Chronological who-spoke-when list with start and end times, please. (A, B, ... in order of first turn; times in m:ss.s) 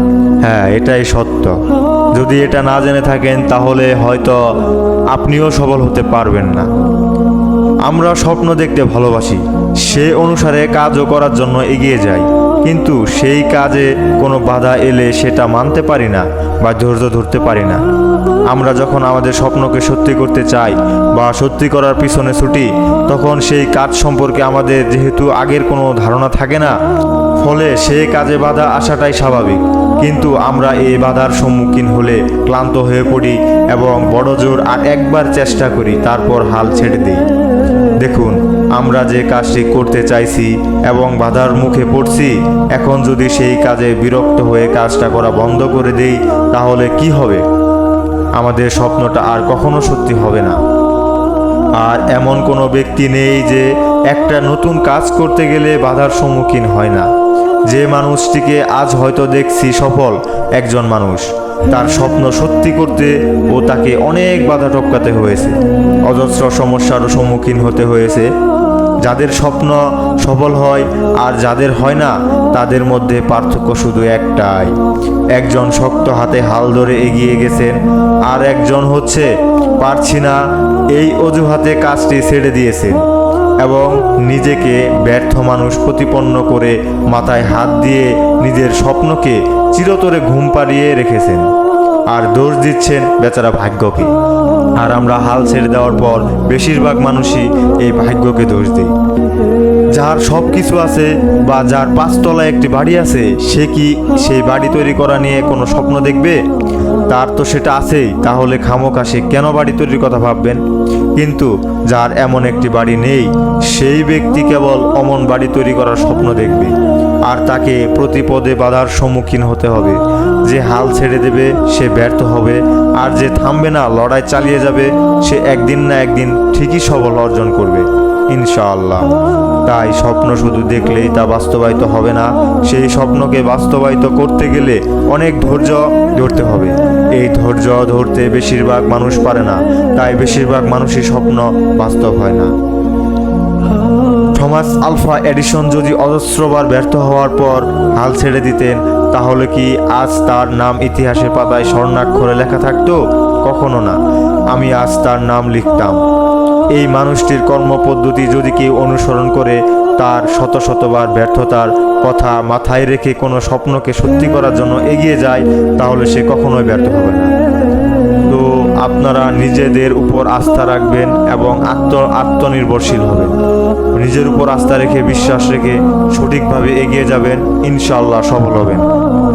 0:00.4-0:01.6 A
0:02.2-0:04.4 A
0:05.1-0:06.7 A
0:07.9-0:17.8 A
0:18.5-0:26.8 A
0:27.4-0:37.3 A
0:38.0-0:47.4 A
0:48.4-0:50.6 A
0:51.8-0:57.1 A
0:57.7-1:05.6 A
1:06.1-1:08.3 A
1:09.0-1:14.7 A
1:15.4-1:19.3 A
1:19.8-1:20.4 A
1:20.9-1:23.0 A
1:23.6-1:31.5 A
1:32.1-1:34.1 A
1:34.8-1:38.9 A
1:40.0-1:46.4 A
1:47.1-1:50.6 A
1:51.2-1:56.7 A
1:57.3-2:09.1 A
2:09.6-2:22.5 A
2:24.4-2:34.0 A
2:34.5-2:36.0 A
2:36.7-2:47.3 A
2:48.3-2:53.3 A
2:54.0-2:58.9 A